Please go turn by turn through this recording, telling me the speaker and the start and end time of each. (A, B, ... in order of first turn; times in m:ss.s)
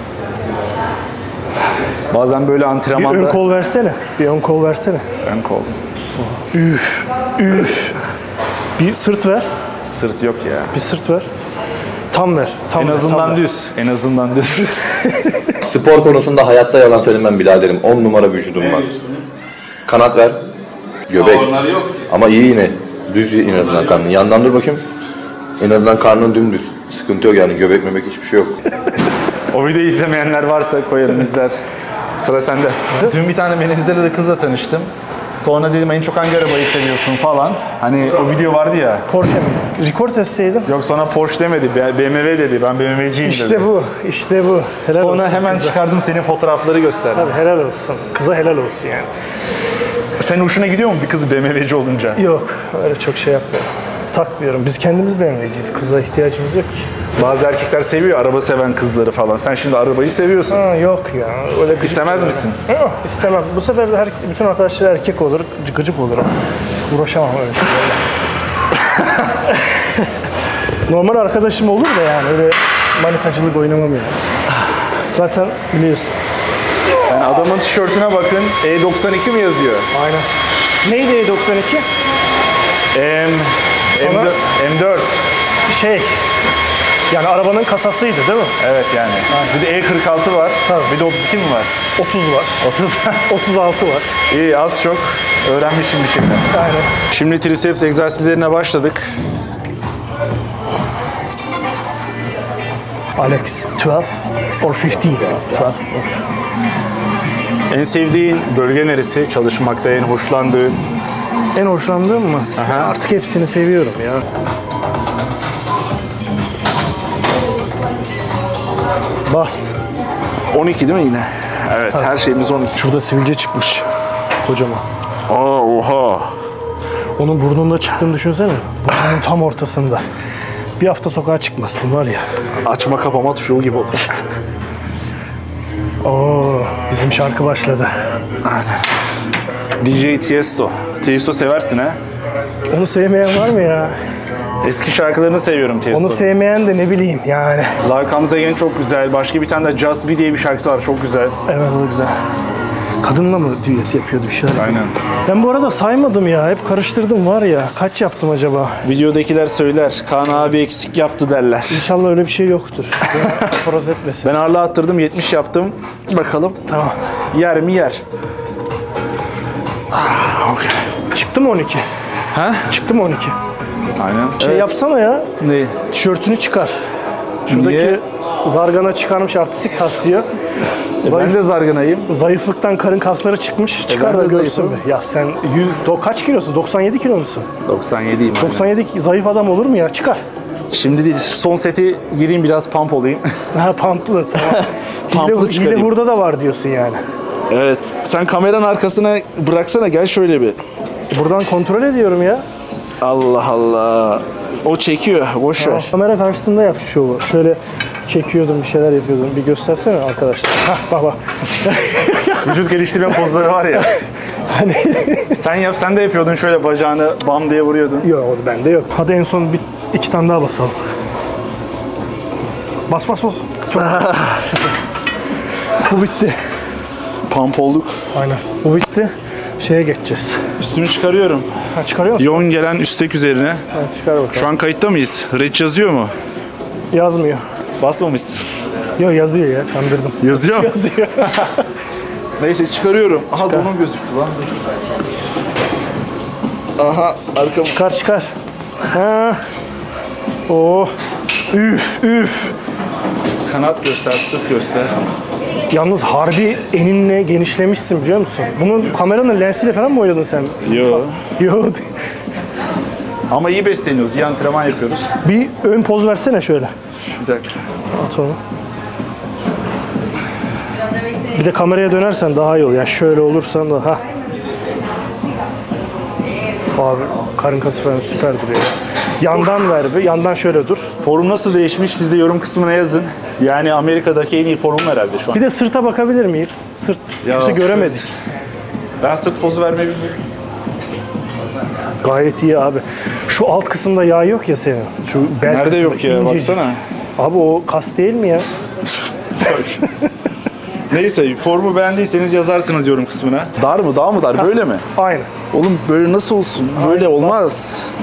0:02.1-0:03.4 A
0:02.9-0:05.1 B
0:05.2-0:05.7 A
0:06.3-0:08.0 B
0:08.8-0:09.5 B
0:09.8-0:10.7 A
0:10.7-0:11.3 B
0:12.1-0:13.4 B
0:12.8-0:14.8 A
0:15.1-0:15.5 B
0:15.6-0:18.8 C
0:18.6-0:19.3 A
0:19.9-0:20.4 C
0:21.1-0:21.5 C
0:21.2-0:22.0 A
0:22.1-0:24.8 C
0:25.6-0:28.6 C
0:29.5-0:31.6 A
0:32.2-0:34.9 A
0:35.4-0:39.1 A
0:39.1-0:40.7 B
0:40.6-0:43.7 A
0:43.2-0:45.8 B
0:44.9-0:47.3 A
0:47.1-0:49.1 B
0:50.2-0:52.2 A
0:52.2-0:56.9 B
0:57.2-1:00.6 A
1:00.5-1:06.3 B
1:01.8-1:02.6 A
1:06.8-1:08.0 B
1:09.5-1:10.1 B
1:10.9-1:14.2 B
1:15.1-1:16.1 B
1:17.1-1:19.9 A
1:19.9-1:20.3 B
1:20.8-1:21.8 B
1:22.9-1:25.3 A
1:24.0-1:24.3 B
1:25.7-1:26.2 B
1:27.1-1:28.6 B
1:28.6-1:31.7 A
1:30.6-1:30.9 B
1:32.0-1:32.6 B
1:32.6-1:33.3 A
1:33.3-1:34.1 B
1:34.3-1:36.5 A
1:36.5-1:36.9 B
1:37.1-1:39.1 A
1:43.2-1:44.1 B
1:44.6-1:46.2 B
1:47.7-1:50.8 A
1:51.5-1:54.2 B
1:52.6-1:52.9 A
1:59.3-1:59.7 B
2:00.5-2:02.8 A
2:02.7-2:03.8 B
2:04.4-2:04.8 B
2:05.3-2:06.3 A
2:07.2-2:10.0 B
2:10.8-2:12.2 B
2:12.6-2:14.1 A
2:16.0-2:18.0 B
2:18.4-2:18.8 A
2:19.8-2:22.0 A
2:22.7-2:24.0 B
2:24.6-2:26.3 A
2:25.9-2:27.8 B
2:27.8-2:31.4 A
2:31.5-2:32.2 B
2:33.0-2:38.8 B
2:34.5-2:34.9 A
2:38.8-2:41.8 A
2:41.7-2:44.3 B
2:43.1-2:43.5 A
2:44.2-2:46.6 A
2:46.7-2:47.0 B
2:47.3-2:48.0 A
2:49.9-2:50.9 A
2:51.1-2:51.8 B
2:52.3-2:52.7 A
2:52.7-2:53.4 B
2:54.0-2:54.9 A
2:54.4-2:55.3 B
2:55.4-2:55.8 A
2:55.9-2:56.8 B
2:57.5-2:58.0 A
2:57.5-3:00.3 B
3:01.0-3:01.4 B
3:01.0-3:02.1 A
3:02.1-3:07.5 B
3:03.9-3:04.8 A
3:07.6-3:08.7 A
3:08.4-3:10.2 B
3:10.7-3:13.3 A
3:13.5-3:17.0 B
3:14.4-3:15.9 A
3:17.5-3:20.6 A
3:21.1-3:22.4 B
3:23.0-3:25.9 A
3:25.6-3:32.6 B
3:32.4-3:33.9 A
3:34.5-3:35.4 B
3:35.4-3:38.1 A
3:38.0-3:40.8 B
3:42.9-3:44.7 B
3:43.8-3:44.4 A
3:45.8-3:46.4 B
3:47.3-3:48.0 A
3:48.1-3:50.4 B
3:50.6-3:51.5 A
3:51.8-3:52.4 B
3:52.2-3:53.6 A
3:53.7-3:54.5 B
3:54.3-3:56.1 A
3:56.9-3:57.4 B
3:57.8-3:58.5 A
3:59.0-4:01.6 B
4:00.2-4:00.7 A
4:02.4-4:04.6 A
4:06.8-4:07.8 A
4:07.7-4:08.3 B
4:08.9-4:09.4 B
4:10.5-4:10.9 B
4:11.5-4:12.5 B
4:13.4-4:15.1 A
4:15.7-4:21.9 B
4:20.6-4:21.3 A
4:23.3-4:25.2 A
4:25.2-4:26.7 B
4:27.0-4:27.6 A
4:27.9-4:28.4 B
4:31.3-4:34.0 B
4:36.7-4:40.9 B
4:41.0-4:45.4 A
4:45.3-4:48.1 B
4:47.2-4:48.1 A
4:49.0-4:50.2 A
4:52.0-4:56.6 B
4:55.4-4:56.8 A
4:57.2-4:58.5 B
4:59.4-4:59.8 A
5:00.9-5:04.9 A
5:04.9-5:05.3 B
5:05.5-5:07.8 A
5:06.7-5:07.5 B